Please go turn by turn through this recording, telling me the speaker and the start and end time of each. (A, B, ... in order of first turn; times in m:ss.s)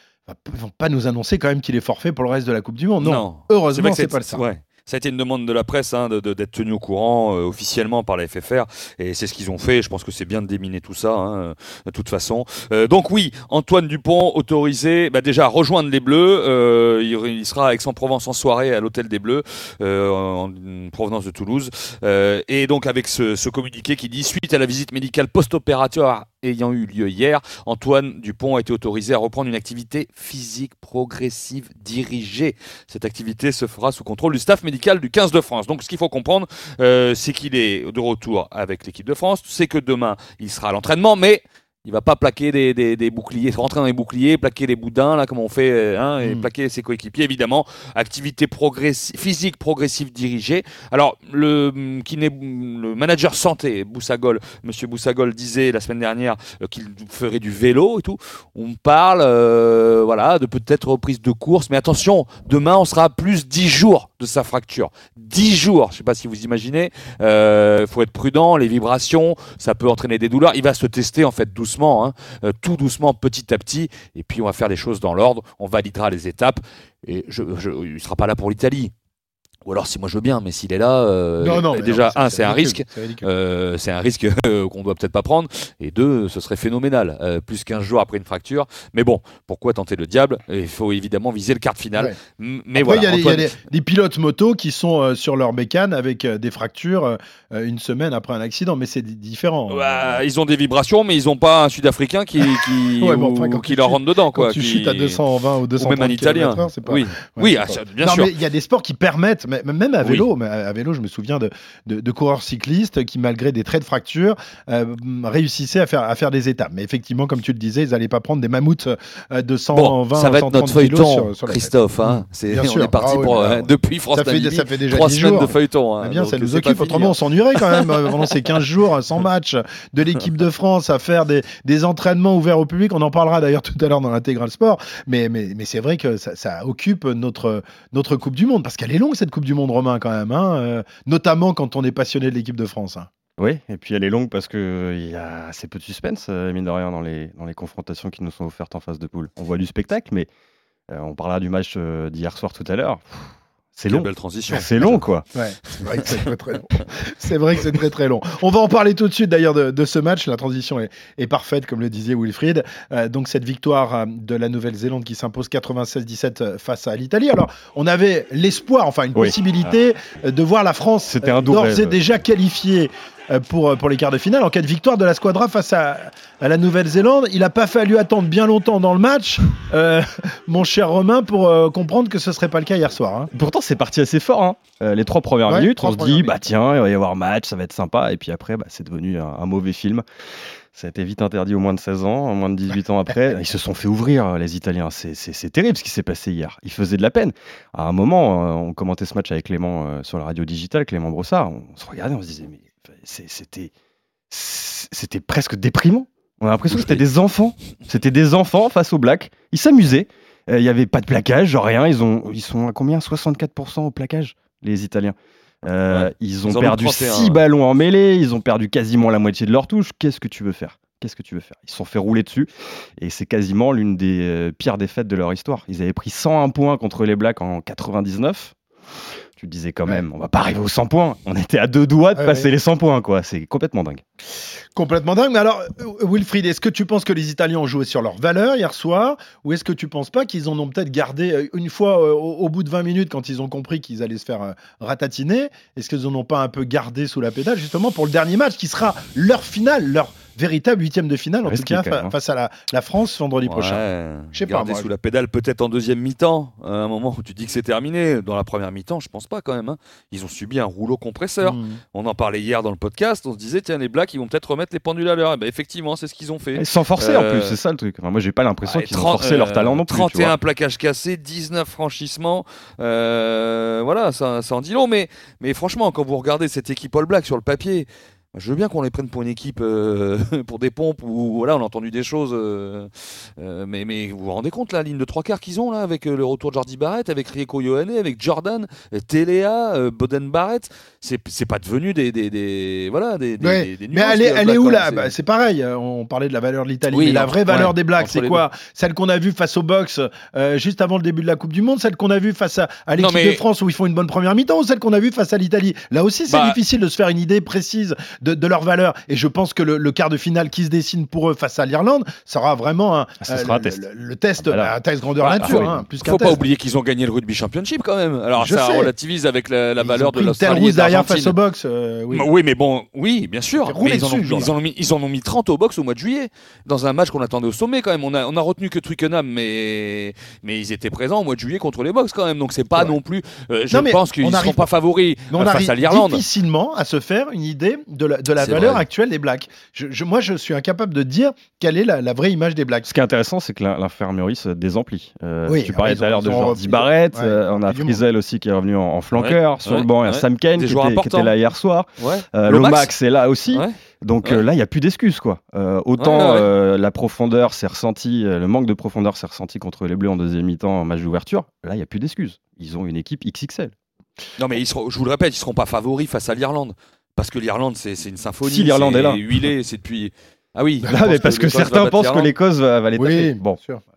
0:00.3-0:04.5 A
0:03.0-1:18.9 B
0:46.2-0:46.5 A
1:19.6-1:33.5 B
1:21.4-1:23.3 A
1:32.8-1:40.2 A
1:39.7-1:48.3 B
1:43.0-2:23.1 A
1:59.7-2:07.9 B
2:23.4-2:30.3 C
2:30.9-2:35.3 C
2:33.9-2:35.0 B
2:35.4-3:03.3 A
2:35.8-2:36.1 B
2:49.2-2:49.8 C
2:51.1-2:52.0 C
3:03.3-3:10.0 C
3:05.5-3:06.4 A
3:10.7-3:23.7 C
3:24.3-3:48.6 C
3:26.7-3:27.0 B
3:35.9-3:37.4 B
3:49.4-3:54.0 C
3:52.2-3:52.5 A
3:54.8-4:14.9 A
4:11.4-4:12.1 C
4:13.4-4:27.6 B
4:21.4-4:21.8 A
4:26.6-4:30.3 C
4:28.6-4:55.1 B
4:53.4-5:16.5 A
4:56.9-4:58.4 B
5:03.0-5:03.4 B
5:06.3-5:06.6 B
5:13.2-5:13.8 C
5:14.4-5:14.7 C
5:15.2-5:21.4 B
5:15.4-5:15.8 C
5:18.4-5:18.9 A
5:19.8-5:22.3 A
5:22.1-5:36.2 B
5:23.6-5:24.5 A
5:33.7-5:34.7 A
5:35.3-5:42.9 A
5:38.4-5:38.8 B
5:42.8-6:03.7 C
5:45.5-5:48.0 A
5:49.1-5:51.3 B
5:52.0-5:52.9 B
5:53.5-5:54.4 B
5:56.0-5:56.5 B
6:04.4-6:12.3 B
6:08.4-6:09.2 C
6:10.9-6:13.6 C
6:13.0-6:13.8 A